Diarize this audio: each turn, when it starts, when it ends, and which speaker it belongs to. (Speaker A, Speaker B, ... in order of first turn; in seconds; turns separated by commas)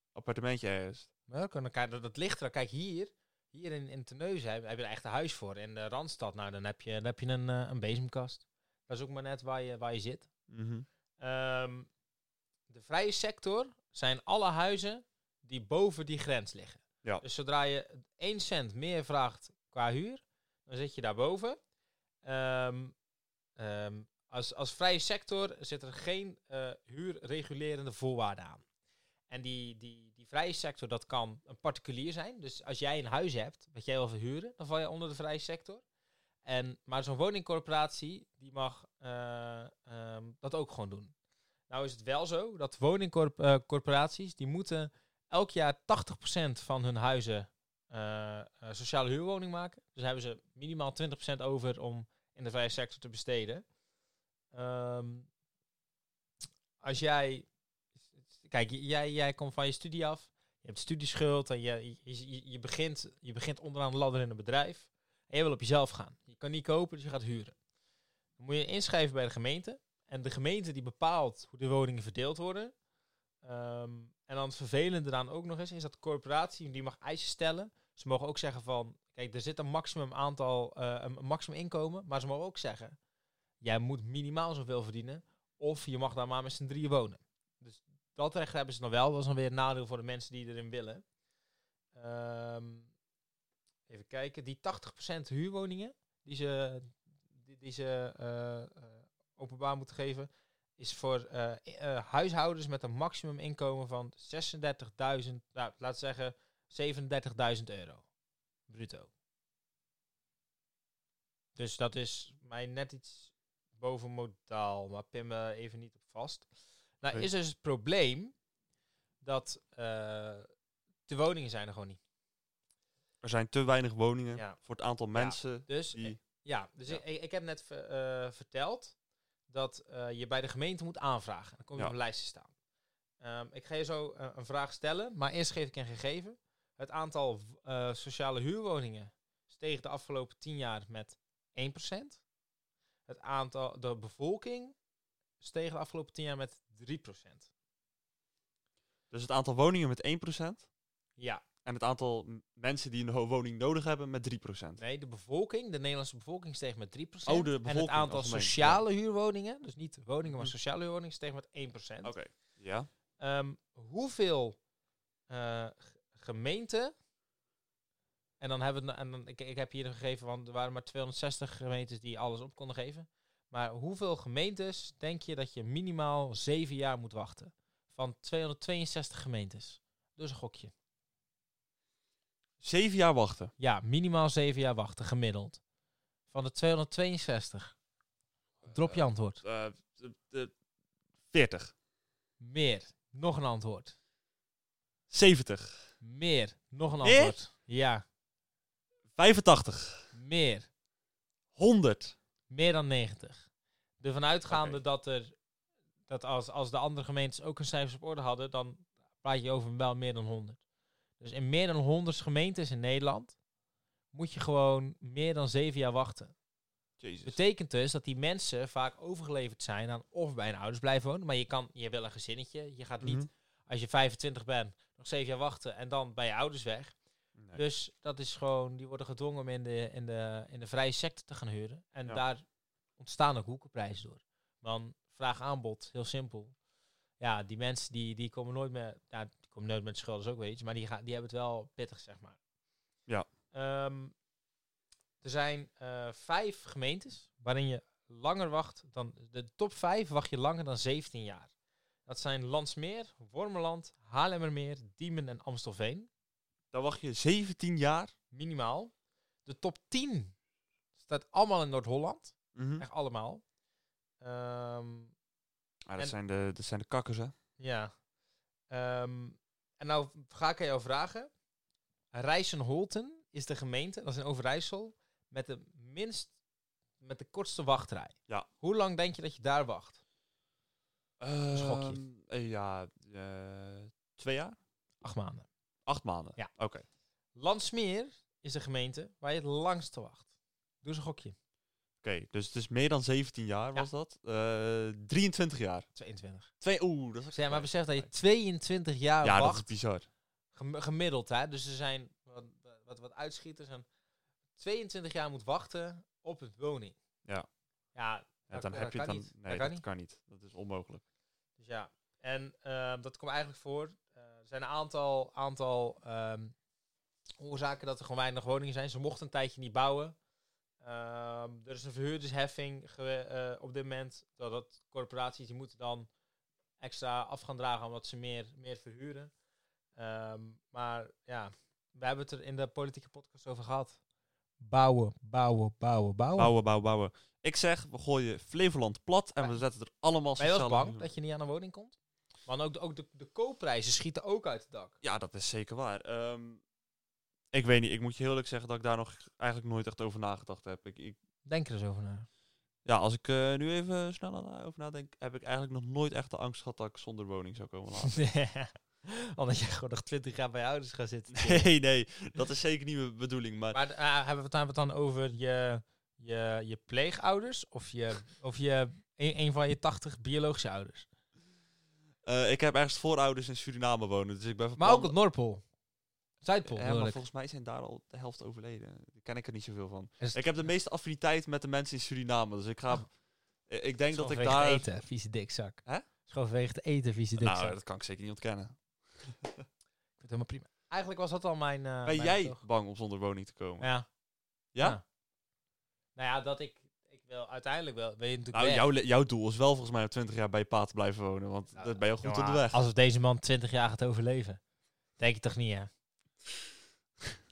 Speaker A: 0.1-1.1, Speaker B: 1.3-10.3, Speaker A: 10.5-10.8, Speaker B: 11.2-11.9, Speaker B: 12.7-21.6, Speaker B: 22.2-22.9, Speaker B: 23.6-28.6, Speaker B: 29.3-35.8, Speaker B: 36.4-41.1, Speaker B: 41.7-53.6, Speaker B: 54.5-55.3, Speaker B: 56.8-57.5, Speaker B: 58.4-67.5, Speaker B: 68.4-72.7, Speaker B: 73.4-83.0, Speaker B: 83.6-91.0, Speaker B: 91.9-92.9, Speaker B: 93.9-108.0, Speaker B: 108.7-109.1, Speaker B: 111.5-116.5, Speaker B: 117.0-118.3, Speaker B: 119.2-120.5, Speaker B: 121.1-122.0, Speaker A: 123.2-126.2, Speaker B: 125.1-128.9, Speaker B: 129.5-132.5, Speaker B: 133.2-142.2, Speaker B: 143.1-144.7, Speaker B: 145.4-147.5, Speaker A: 149.1-150.7, Speaker B: 151.2-151.4, Speaker A: 151.6-154.8, Speaker B: 154.8-162.1, Speaker A: 157.2-158.8, Speaker A: 160.3-160.5, Speaker A: 162.0-162.9, Speaker B: 163.2-164.6, Speaker B: 165.3-166.9, Speaker B: 168.4-180.7, Speaker A: 182.6-183.5, Speaker B: 183.6-185.6, Speaker B: 186.3-187.7, Speaker A: 188.6-190.5, Speaker B: 188.6-189.4, Speaker A: 191.3-191.7, Speaker B: 192.4-193.9, Speaker A: 195.1-195.9, Speaker B: 196.0-198.0, Speaker A: 197.0-197.3, Speaker A: 199.2-200.1, Speaker B: 200.1-200.7, Speaker A: 201.5-202.2, Speaker B: 202.5-203.5, Speaker B: 204.0-205.3, Speaker A: 204.5-204.8, Speaker B: 206.1-210.6, Speaker B: 211.2-213.3, Speaker B: 214.1-216.3, Speaker A: 217.0-217.4, Speaker B: 217.2-226.9, Speaker A: 223.0-223.3, Speaker B: 227.5-232.4, Speaker B: 233.0-236.5, Speaker B: 237.2-242.4, Speaker B: 243.5-244.1, Speaker B: 245.2-251.5, Speaker B: 252.1-256.1, Speaker A: 256.7-258.1, Speaker B: 258.3-258.9, Speaker B: 259.4-260.3, Speaker B: 261.0-263.4, Speaker A: 262.5-262.8, Speaker B: 264.2-265.1, Speaker A: 265.9-267.3, Speaker B: 267.6-267.9, Speaker B: 268.7-271.3, Speaker B: 272.1-276.3, Speaker B: 277.0-280.0, Speaker A: 281.2-284.6, Speaker B: 281.5-282.0, Speaker B: 285.0-285.5, Speaker A: 285.9-286.8, Speaker B: 287.4-290.2, Speaker B: 290.8-291.3, Speaker A: 292.0-295.9, Speaker B: 295.9-296.5, Speaker A: 296.6-298.1, Speaker B: 297.3-299.7, Speaker A: 299.2-300.1, Speaker B: 300.5-303.9, Speaker B: 304.6-306.9, Speaker B: 307.9-309.8, Speaker A: 308.5-311.0, Speaker B: 311.6-316.5, Speaker B: 317.4-320.1, Speaker B: 320.8-326.1, Speaker B: 326.8-329.3, Speaker B: 329.9-334.0, Speaker B: 334.6-336.5, Speaker A: 336.4-341.1, Speaker B: 340.4-344.9, Speaker A: 345.0-346.6, Speaker A: 347.5-351.2, Speaker B: 351.4-352.3, Speaker A: 352.8-358.1, Speaker B: 358.0-361.7, Speaker A: 361.3-363.8, Speaker B: 363.7-371.1, Speaker A: 372.2-375.1, Speaker B: 374.8-375.6, Speaker B: 376.4-377.2, Speaker A: 376.7-383.1, Speaker B: 380.2-380.5, Speaker A: 383.6-385.0, Speaker B: 384.1-387.8, Speaker A: 387.4-389.6, Speaker B: 390.2-392.6, Speaker A: 392.0-393.9, Speaker B: 393.8-394.1, Speaker A: 394.7-395.0, Speaker B: 396.1-398.9, Speaker A: 398.5-402.8, Speaker B: 401.7-404.6, Speaker B: 405.2-405.9